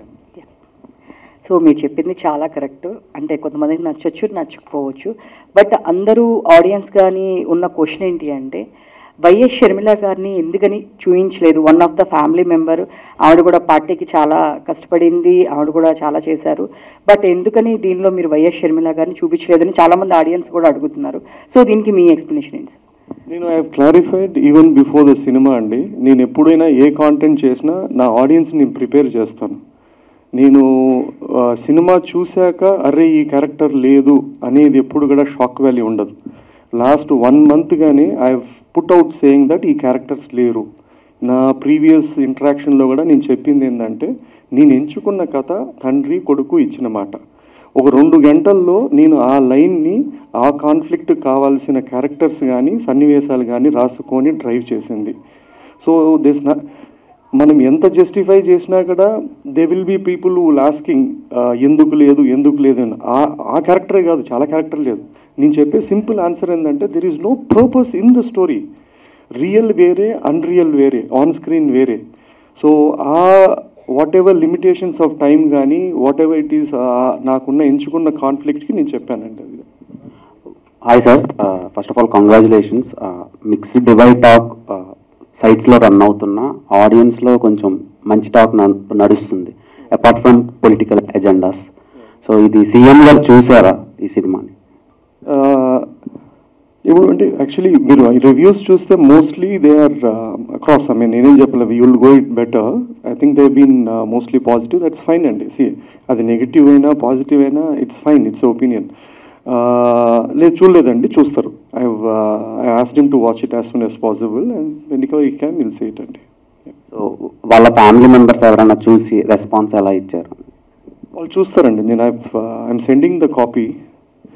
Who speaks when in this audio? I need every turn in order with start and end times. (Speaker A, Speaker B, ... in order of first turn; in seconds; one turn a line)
Speaker A: 1.4-8.6
Speaker A: 9.2-22.8
Speaker B: 23.3-29.6
Speaker B: 30.4-36.1
Speaker B: 36.8-40.6
Speaker B: 41.2-47.2
Speaker B: 47.8-55.1
Speaker B: 55.8-56.5
Speaker B: 57.4-68.6
Speaker B: 69.4-72.0
Speaker B: 72.6-79.7
Speaker C: 80.9-91.7
Speaker C: 92.2-94.5
Speaker B: 95.3-95.8
Speaker B: 96.9-108.9
Speaker B: 109.5-116.2
Speaker C: 116.9-120.3
Speaker B: 121.2-123.7